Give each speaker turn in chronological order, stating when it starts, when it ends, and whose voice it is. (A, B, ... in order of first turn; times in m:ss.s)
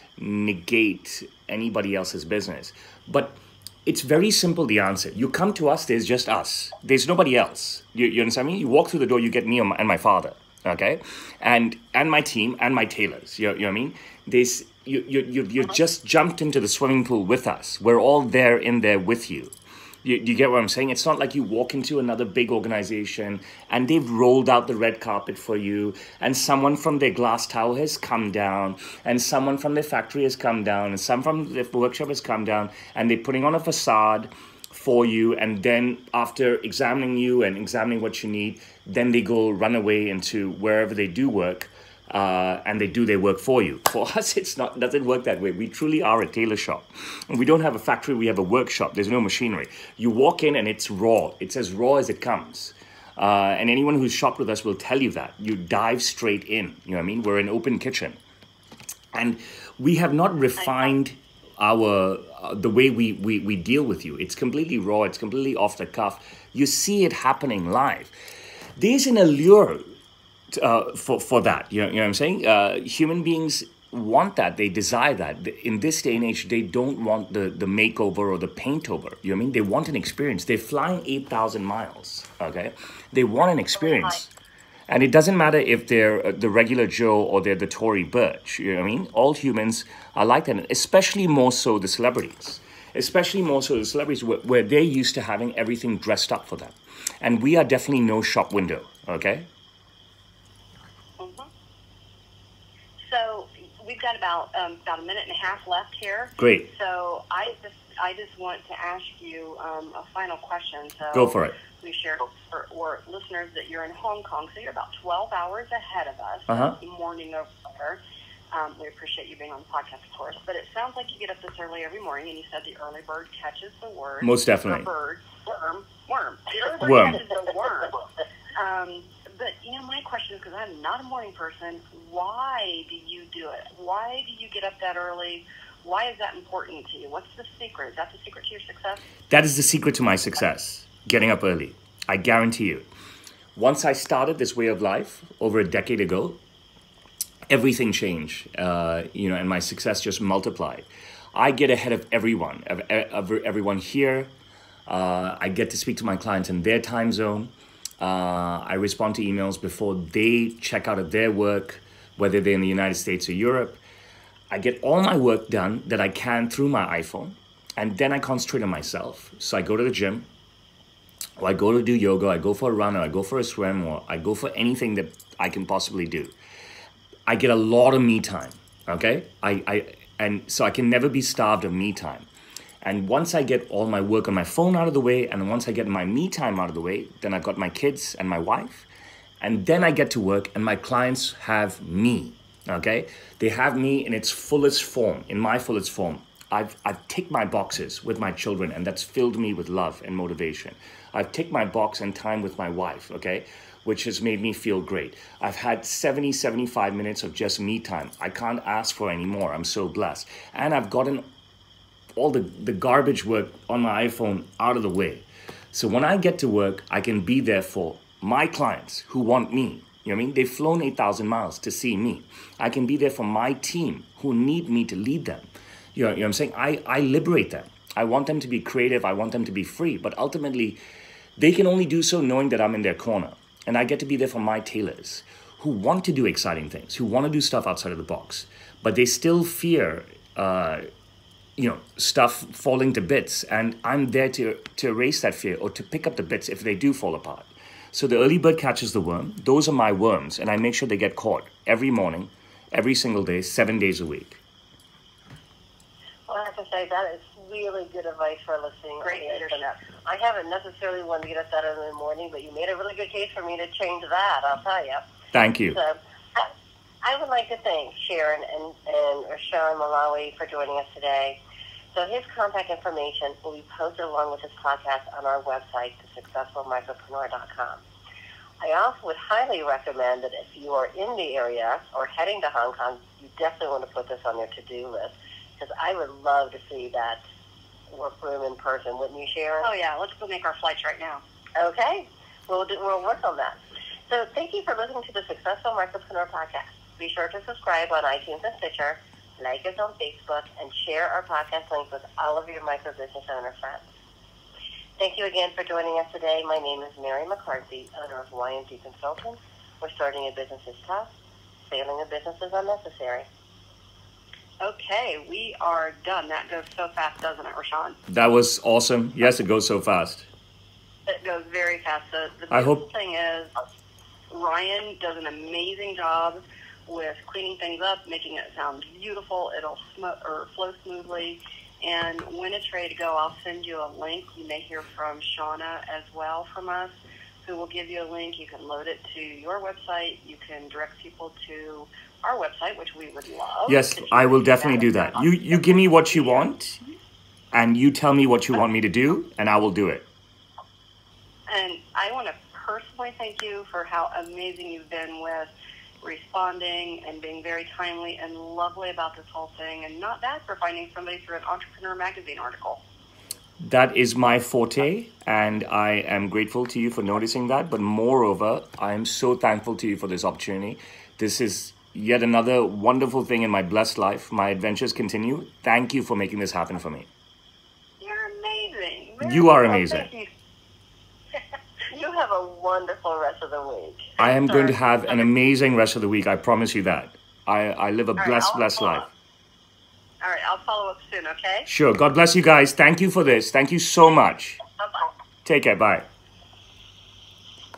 0:00.2-0:58.2 A
0:59.1-1:08.1 A
1:00.6-1:00.9 B
1:08.8-1:09.9 A
1:10.5-1:24.3 A
1:24.9-1:39.5 A
1:41.2-1:41.5 B
1:43.0-1:58.0 B
1:46.4-1:46.7 A
1:51.1-1:51.6 A
1:56.5-1:56.8 A
1:58.5-2:08.0 B
2:04.2-2:04.9 A
2:06.8-2:07.2 A
2:08.6-2:19.0 B
2:19.3-2:22.9 A
2:23.6-2:26.4 A
2:27.5-2:34.3 A
2:34.9-2:43.8 A
2:44.5-2:50.3 A
2:51.4-2:56.4 A
2:57.3-3:02.3 A
3:02.8-3:08.9 A
3:09.4-3:31.3 A
3:32.2-3:50.8 A
3:51.4-4:00.8 A
4:01.6-4:14.4 A
4:16.3-4:25.0 C
4:19.0-4:19.8 B
4:25.3-4:25.8 A
4:25.7-4:26.5 C
4:27.0-4:31.4 C
4:31.9-4:37.8 C
4:38.6-4:47.2 C
4:47.9-4:49.7 C
4:49.6-4:51.2 B
4:51.6-5:03.9 C
5:05.0-5:11.1 C
5:11.7-5:13.3 C
5:14.6-5:18.0 B
5:18.1-5:20.3 A
5:21.1-5:23.5 B
5:22.5-5:22.8 A
5:24.3-5:36.9 B
5:37.4-5:46.5 B
5:43.7-5:46.8 A
5:47.5-5:50.1 A
5:51.5-6:02.8 B
6:03.6-6:17.1 A
6:18.0-6:20.3 B
6:19.2-6:20.1 A
6:21.9-6:24.7 C
6:24.2-6:29.1 A
6:28.2-6:29.1 B
6:30.2-6:31.7 B
6:31.7-6:34.6 A
6:35.4-6:36.1 A